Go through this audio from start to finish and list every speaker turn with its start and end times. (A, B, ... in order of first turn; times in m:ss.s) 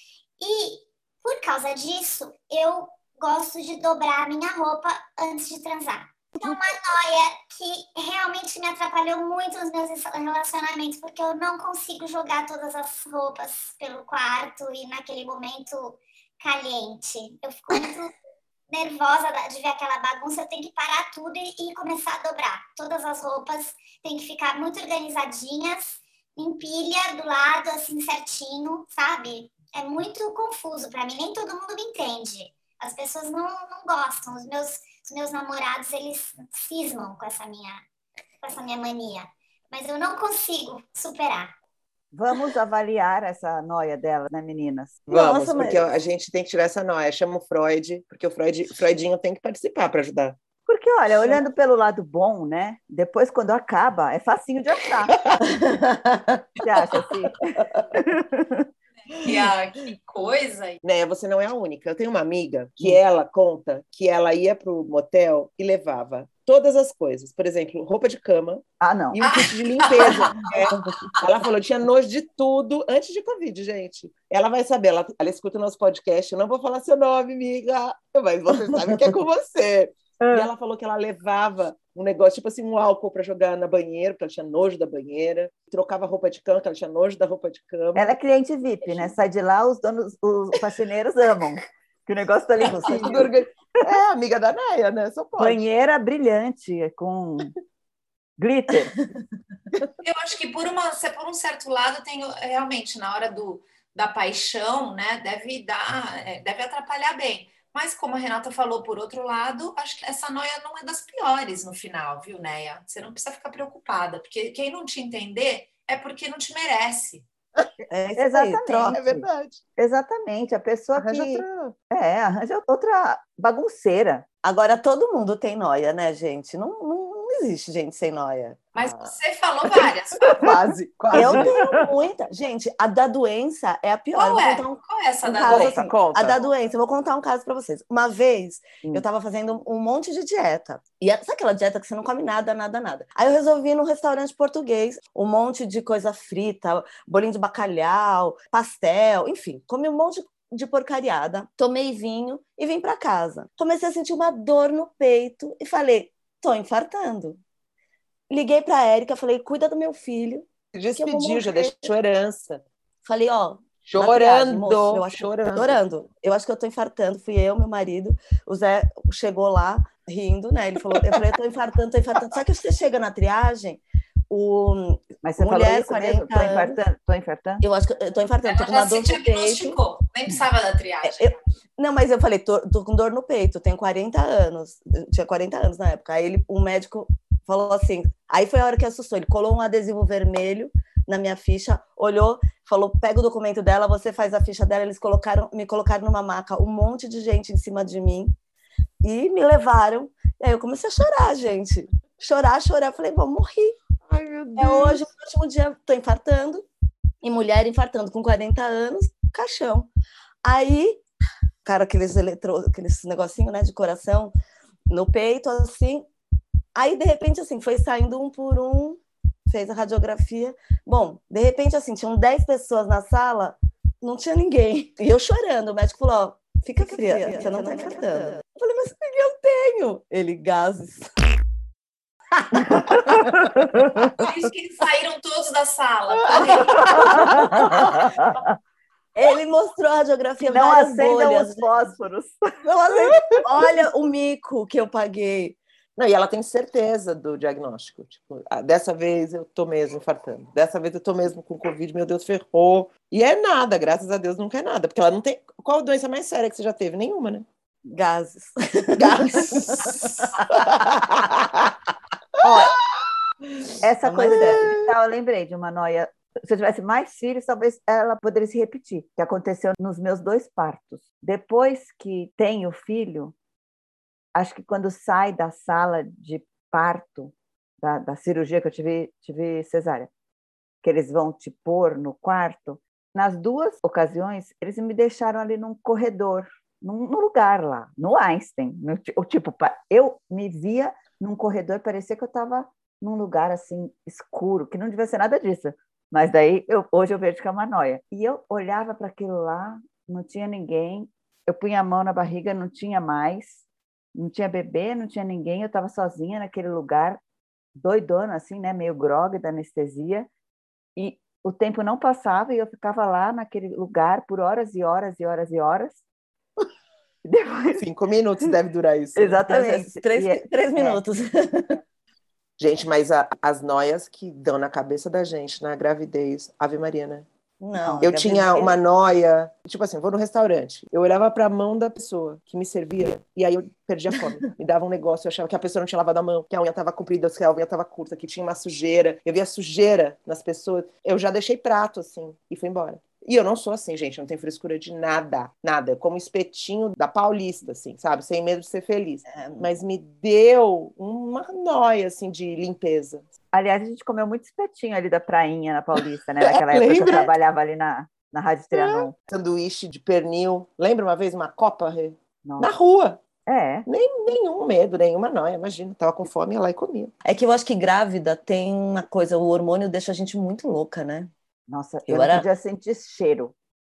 0:00.4-0:18.1 A
0:18.7-0:37.8 A
0:38.4-0:41.6 A
0:42.1-0:45.0 B
0:45.1-0:45.9 C
0:45.1-0:50.4 D
0:50.7-0:55.2 B
0:55.5-0:56.4 C
0:56.6-0:58.7 B
0:59.1-1:00.8 E
1:00.8-1:28.1 D
1:08.8-1:09.2 B
1:09.2-1:10.8 E
1:28.0-1:33.3 B
1:32.7-1:33.0 C
1:32.9-1:35.6 D
1:35.4-1:37.6 B
1:38.4-1:39.0 B
1:40.0-1:57.3 E
1:57.9-1:59.0 C
1:58.2-2:04.3 B
1:58.9-1:59.6 D
2:01.0-2:01.7 D
2:04.4-2:08.6 C
2:08.8-2:10.5 E
2:10.3-2:11.6 D
2:11.1-2:37.4 C
2:11.2-2:11.8 B
2:14.1-2:15.8 E
2:15.4-2:16.5 D
2:38.3-2:41.9 C
2:40.7-2:42.6 D
2:43.0-2:56.8 C
2:43.8-2:45.8 D
2:55.2-2:57.6 B
2:57.6-2:59.8 C
2:58.4-3:01.3 E
3:01.0-3:18.4 C
3:19.0-3:23.8 C
3:24.1-3:25.1 D
3:24.6-3:26.7 C
3:27.2-3:29.9 C
3:30.4-3:31.0 C
3:31.6-3:34.3 C
3:34.9-3:36.1 C
3:36.8-3:51.1 C
3:52.6-3:54.1 B
3:54.2-3:57.4 E
3:56.2-3:58.1 D
3:56.9-3:58.3 B
3:59.2-4:01.9 C
4:00.4-4:03.4 B
4:02.6-4:05.6 C
4:06.0-4:17.5 D
4:17.9-4:20.1 C
4:19.0-4:21.7 D
4:22.4-4:22.8 B
4:22.4-4:22.7 D
4:23.8-4:33.4 B
4:24.0-4:24.7 C
4:24.3-4:24.8 D
4:34.4-4:40.1 B
4:40.8-5:03.6 B
5:04.2-5:07.2 B
5:07.8-5:10.3 B
5:11.0-5:16.0 B
5:17.2-5:17.8 B
5:17.8-5:19.4 D
5:19.2-5:21.0 B
5:19.4-5:21.8 C
5:22.6-5:27.3 D
5:27.6-5:28.8 C
5:28.0-5:53.3 D
5:49.3-5:49.7 C
5:53.5-5:59.1 B
5:56.4-5:57.3 D
5:58.7-6:03.2 D
6:02.4-6:02.7 B
6:03.5-6:03.9 B
6:03.9-6:07.1 D
6:07.2-6:11.3 C
6:11.7-6:13.5 B
6:12.1-6:12.5 C